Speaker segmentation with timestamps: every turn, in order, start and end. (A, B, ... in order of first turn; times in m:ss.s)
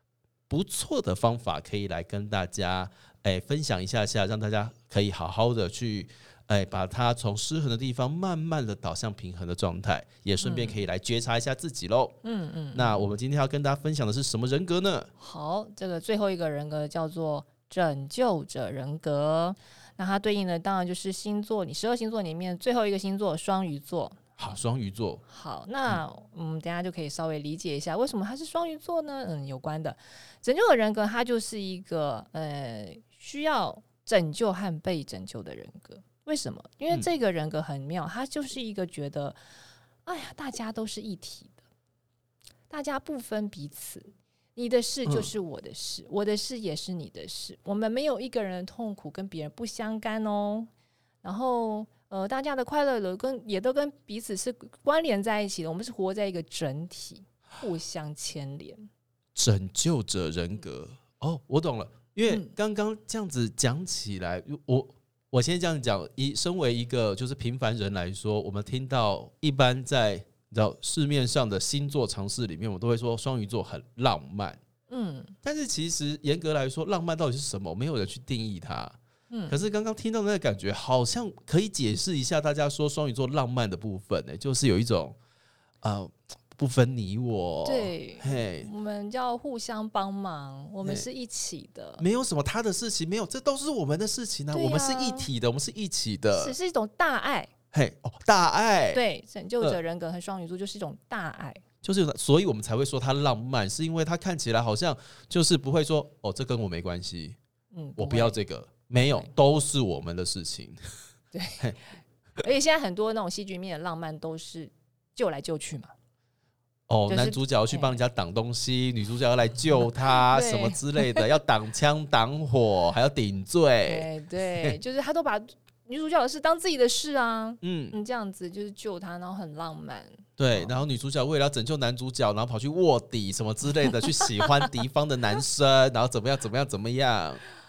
0:00.5-0:12.2 A
0:10.4-0:10.8 B
0:12.2-0:13.0 B
0:12.7-0:15.1 A
0:15.2-0:24.3 B
0:24.4-0:25.2 A
0:25.3-0:39.4 B
0:40.0-0:41.6 B
0:42.7-0:50.7 B
0:51.2-0:58.9 B
0:59.4-1:14.6 A
1:02.3-1:02.5 B
1:14.9-1:15.3 B
1:15.4-1:19.0 A
1:19.3-1:19.6 B
1:19.5-1:25.2 A
1:25.8-1:28.7 A
1:27.6-1:32.0 B
1:32.0-1:36.6 A
1:34.5-1:35.3 B
1:36.3-1:37.5 B
1:37.7-1:39.0 A
1:38.9-1:41.6 B
1:41.8-1:47.4 A
1:47.7-1:48.4 B
1:48.0-1:50.8 A
1:49.0-1:49.3 B
1:51.3-1:51.7 B
1:52.4-1:55.9 B
1:56.9-2:04.8 A
1:57.1-1:58.0 B
2:00.0-2:01.3 B
2:03.8-2:10.8 B
2:07.6-2:08.0 A
2:10.4-2:17.4 A